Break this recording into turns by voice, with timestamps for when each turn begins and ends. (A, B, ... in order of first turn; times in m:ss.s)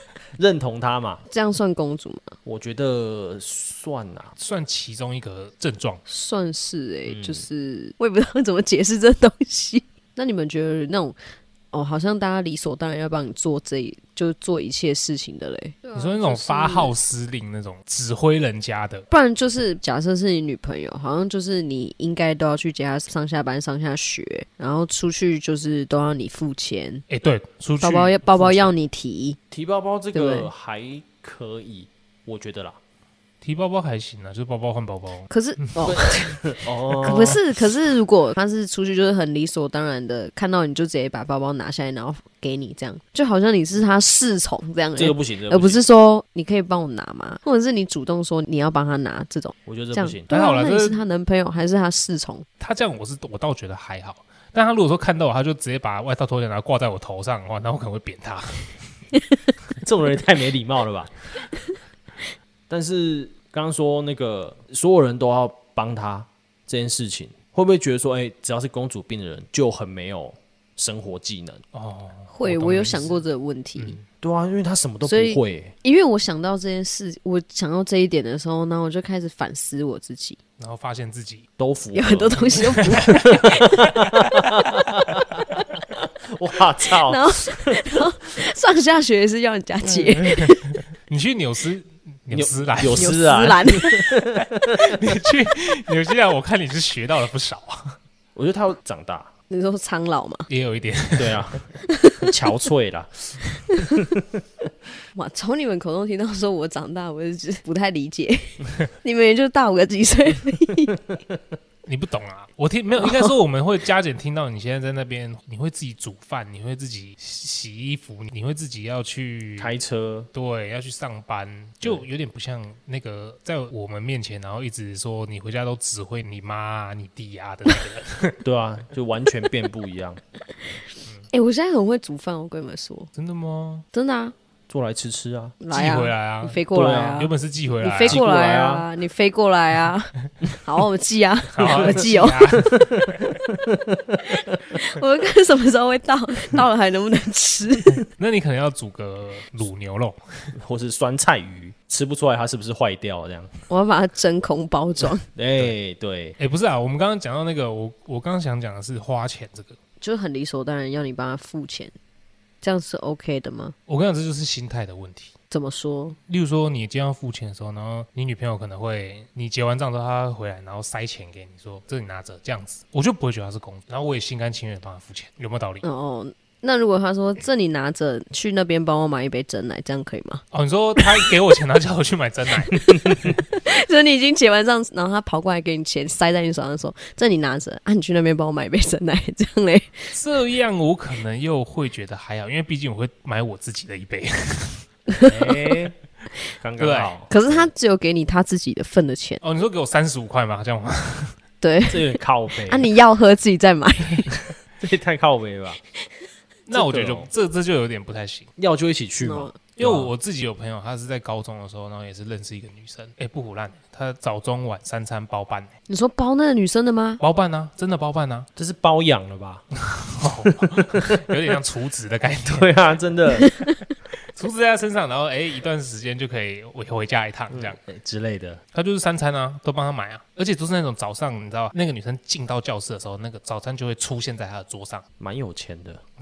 0:00.4-0:01.2 A
0:01.3-0:02.4 B
0:02.4-0:04.3 A
0:04.4-0:06.0 C
0:06.0-0:11.2 B
0:07.1-0:07.4 A
0:11.7-0:16.9 B
0:15.9-0:19.0 C
0:19.1-0:27.0 B
0:27.1-0:28.7 C
0:27.8-0:29.4 B
0:29.5-0:32.8 A
0:30.1-0:30.5 B
0:33.4-0:35.9 C
0:35.3-0:52.4 B
0:35.8-0:37.4 A
0:37.1-0:37.4 C
0:45.0-0:45.8 A
0:49.6-0:50.3 A
0:50.3-0:51.0 C
0:52.6-0:58.8 C
0:59.8-1:01.1 A
1:02.7-1:11.6 A
1:11.7-1:13.2 C
1:12.3-1:14.0 B
1:14.2-1:15.7 A
1:15.0-1:20.4 B
1:20.6-1:21.5 C
1:21.6-1:25.4 A
1:21.9-1:23.7 B
1:22.5-1:24.7 C
1:26.0-1:27.8 A
1:27.0-1:30.7 B
1:29.9-1:33.1 C
1:32.3-1:34.9 A
1:33.0-1:34.0 B
1:34.7-1:38.0 C
1:38.3-1:39.3 A
1:39.5-1:40.5 B
1:40.5-1:41.6 C
1:41.2-1:41.6 A
1:41.8-1:42.3 B
1:42.2-1:44.4 A
1:43.7-1:44.0 B
1:45.1-1:51.0 B
1:51.8-1:59.7 C
1:59.6-2:00.3 A
2:00.3-2:08.4 C
2:08.4-2:10.2 A
2:11.3-2:13.1 B
2:13.1-2:13.8 C
2:13.9-2:14.3 B
2:14.7-2:15.6 A
2:15.6-2:22.5 B
2:15.7-2:18.2 C
2:16.7-2:17.2 A
2:18.0-2:18.8 A
2:21.5-2:23.4 C
2:22.6-2:24.2 A
2:24.3-2:28.0 B
2:28.2-2:30.5 C
2:30.6-2:33.5 A
2:33.7-2:35.2 B
2:35.3-2:36.4 A
2:36.4-2:39.8 C
2:40.0-2:41.9 B
2:42.6-2:43.7 B
2:43.9-2:45.3 C
2:45.5-2:46.2 B
2:46.3-2:55.8 C
2:55.8-3:00.4 B
3:00.5-3:03.4 C
3:03.5-3:10.1 B
3:10.1-3:14.8 C
3:15.1-3:15.5 B
3:15.2-3:16.0 A
3:16.6-3:17.7 A
3:16.8-3:17.1 C
3:17.3-3:19.4 B
3:19.4-3:21.4 C
3:21.6-3:24.3 B
3:21.9-3:22.9 A
3:24.8-3:25.8 A
3:26.7-3:28.5 C
3:26.7-3:27.3 A
3:28.6-3:30.1 A
3:29.2-3:29.6 B
3:29.8-3:35.7 C
3:35.9-3:37.2 B
3:37.2-3:38.5 C
3:38.6-3:39.6 A
3:39.9-3:42.8 C
3:40.4-3:41.2 A
3:42.4-3:43.5 A
3:43.4-3:43.7 B
3:44.3-3:47.8 C
3:47.5-3:48.6 A
3:48.7-3:55.0 C
3:55.2-3:56.0 A